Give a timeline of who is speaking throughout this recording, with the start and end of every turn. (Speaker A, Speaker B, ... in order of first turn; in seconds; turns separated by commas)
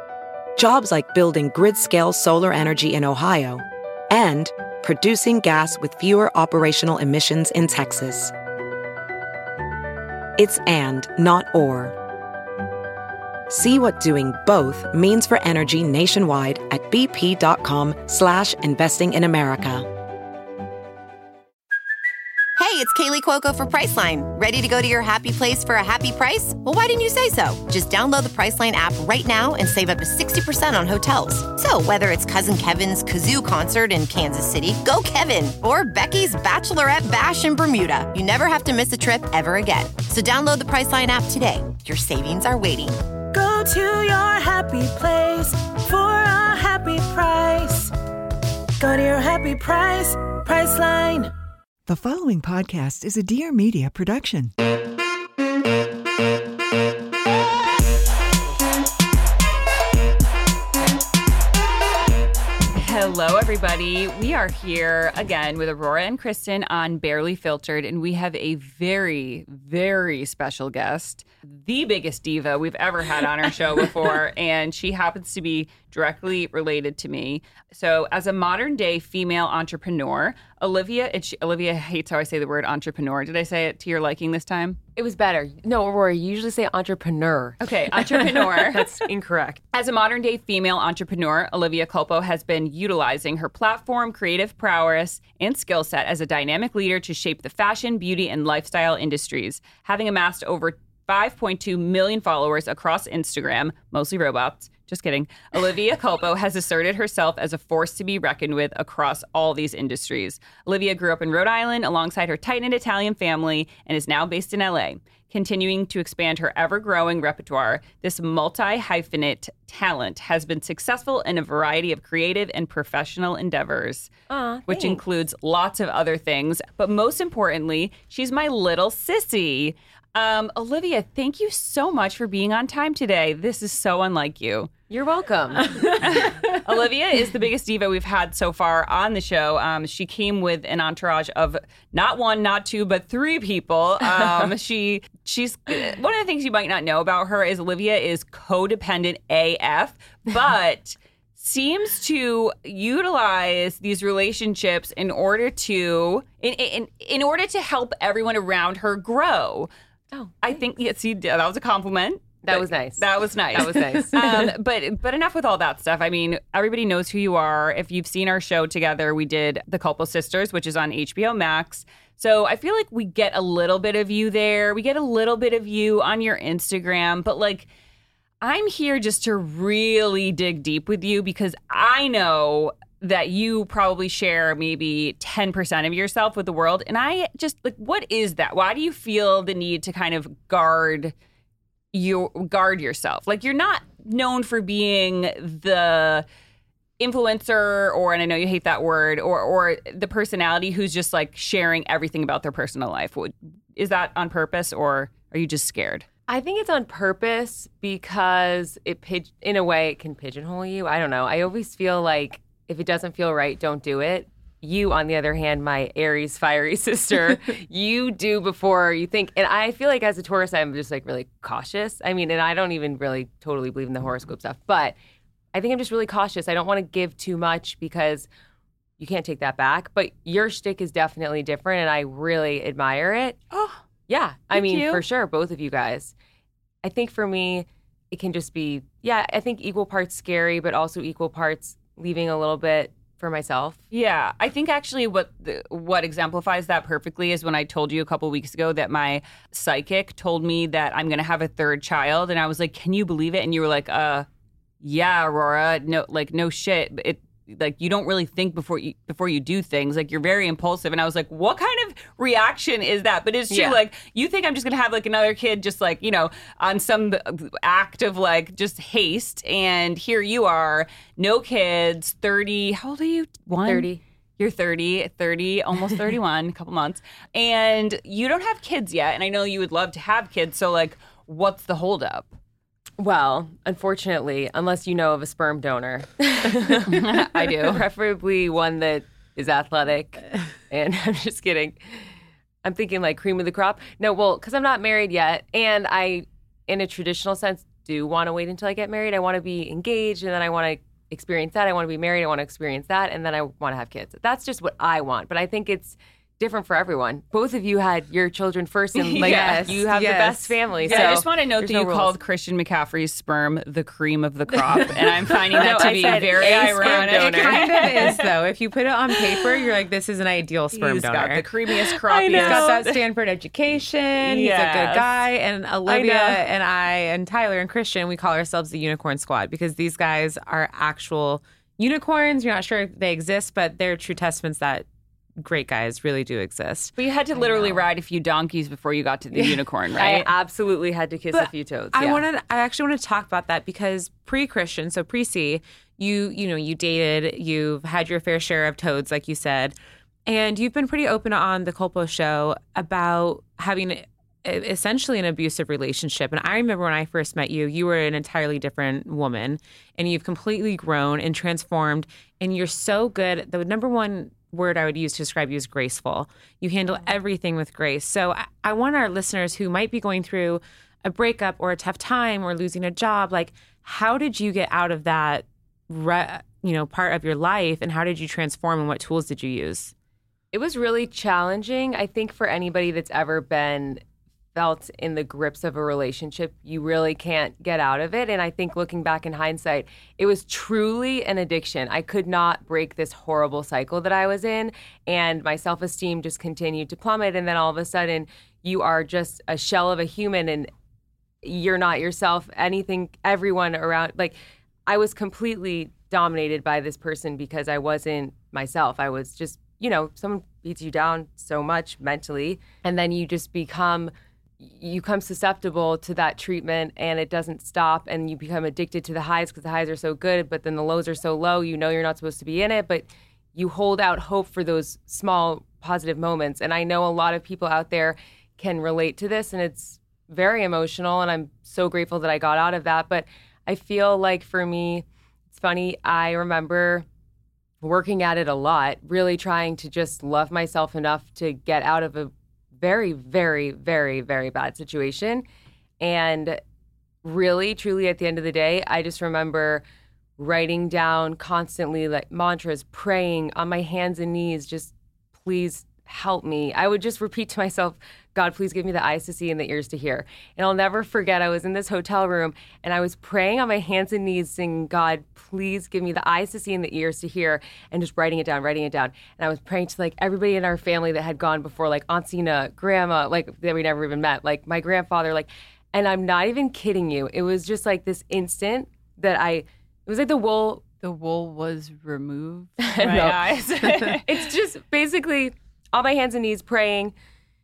Speaker A: 0.6-8.3, Speaker A: 10.4-11.9, Speaker A: 13.5-19.9, Speaker B: 22.6-43.0, Speaker C: 43.3-47.9, Speaker C: 48.8-51.3, Speaker D: 51.9-54.5, Speaker E: 62.7-84.8, Speaker F: 85.0-89.6, Speaker E: 87.6-89.0, Speaker E: 89.7-124.1, Speaker F: 124.3-125.0, Speaker E: 124.7-134.7, Speaker F: 134.9-135.8, Speaker E: 135.8-159.7, Speaker F: 160.1-160.6, Speaker E: 160.4-177.7, Speaker F: 162.4-164.5, Speaker E: 178.4-191.1, Speaker E: 191.9-196.2, Speaker E: 197.0-206.1, Speaker F: 206.3-225.0, Speaker F: 225.5-228.3, Speaker F: 229.0-233.4, Speaker E: 233.5-233.8, Speaker F: 234.1-236.1, Speaker E: 234.5-235.0, Speaker F: 236.8-243.8, Speaker E: 243.9-254.3, Speaker E: 254.8-282.4, Speaker F: 263.5-263.8, Speaker F: 273.6-274.0, Speaker F: 283.0-292.0, Speaker E: 286.8-287.8, Speaker F: 292.6-312.1, Speaker E: 308.9-309.8, Speaker G: 309.2-311.2, Speaker E: 310.8-318.2, Speaker G: 315.5-321.4, Speaker F: 315.5-317.9, Speaker E: 320.7-323.0, Speaker F: 322.1-322.8, Speaker G: 322.3-334.9, Speaker E: 324.2-325.1, Speaker F: 325.9-326.4, Speaker G: 335.4-336.9, Speaker E: 337.0-340.3, Speaker F: 337.4-337.7, Speaker F: 339.3-342.2, Speaker G: 341.3-379.9, Speaker F: 380.5-384.0, Speaker F: 384.5-400.7, Speaker F: 401.4-437.1, Speaker F: 437.8-445.4, Speaker F: 446.0-446.6, Speaker F: 447.2-449.8, Speaker F: 450.4-480.8, Speaker E: 481.0-484.3, Speaker F: 482.8-487.1